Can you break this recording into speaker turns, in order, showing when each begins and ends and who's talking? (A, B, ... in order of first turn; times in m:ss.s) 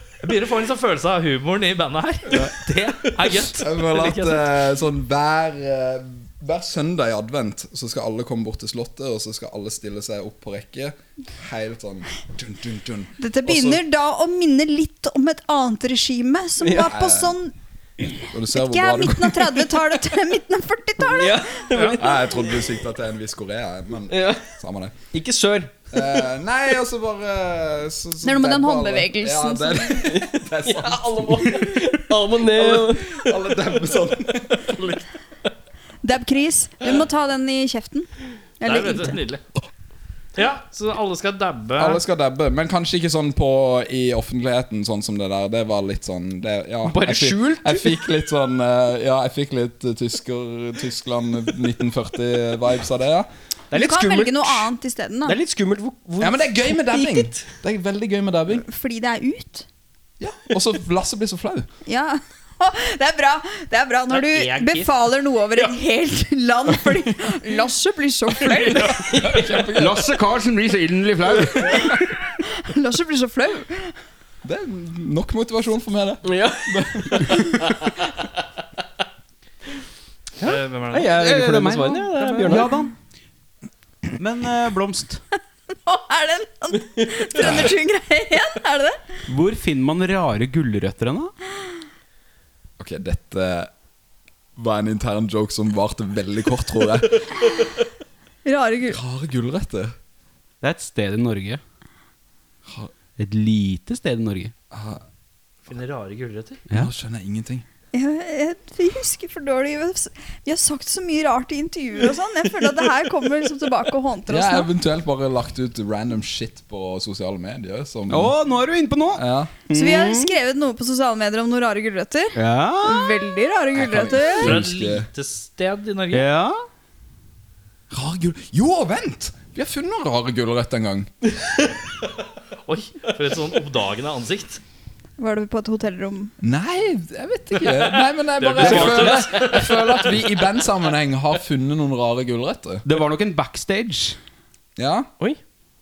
0:00.2-0:04.4 A
0:03.5-0:13.7 B
0:13.2-0:17.5 C
0:16.6-0:16.9 D
0:16.8-0:17.4 B
0:18.3-0:19.7 B
0:18.5-0:21.7 C
0:21.0-0:22.6 D
0:21.9-0:24.9 B
0:24.1-0:24.5 D
0:25.1-0:25.9 D
0:25.9-0:31.9 B
0:28.2-0:30.0 C
0:30.0-0:33.2 D
0:32.5-0:35.0 B
0:34.8-0:35.0 A
0:36.0-0:38.1 C
0:38.6-0:39.2 C
0:38.6-0:39.4 A
0:40.3-0:42.0 A
0:41.8-0:53.3 B
0:46.8-0:48.0 D
0:53.7-0:54.7 D
0:53.7-0:55.4 C
0:55.2-0:57.4 D
0:56.2-0:58.6 B
0:58.6-0:59.6 C
1:00.2-1:01.7 B
1:01.8-1:09.2 C
1:04.1-1:04.9 A
1:08.5-1:10.1 B
1:09.0-1:09.6 D
1:09.7-1:12.1 E
1:12.4-1:13.9 C
1:14.4-1:17.8 B
1:16.2-1:17.4 D
1:20.4-1:22.7 D
1:20.4-1:21.3 A
1:21.0-1:22.9 E
1:24.2-1:25.2 E
1:25.8-1:29.0 C
1:27.4-1:27.7 B
1:29.3-1:31.3 E
1:32.8-1:33.7 B
1:34.6-1:37.4 B
1:38.4-1:39.0 C
1:38.8-1:39.9 B
1:40.6-1:41.6 E
1:42.7-1:42.9 B
1:43.2-1:44.5 E
1:44.7-1:45.0 B
1:45.6-1:46.6 A
1:46.7-1:47.6 B
1:47.9-1:54.7 C
1:54.3-1:58.4 B
1:58.1-2:00.3 E
1:59.1-1:59.6 B
1:59.7-2:04.6 C
2:02.4-2:03.3 E
2:03.7-2:05.1 B
2:04.3-2:06.2 A
2:06.1-2:06.6 E
2:07.9-2:11.1 B
2:12.6-2:14.6 A
2:15.2-2:16.3 C
2:16.4-2:22.8 B
2:18.4-2:20.1 A
2:18.6-2:19.0 D
2:22.8-2:24.2 E
2:24.8-2:25.1 B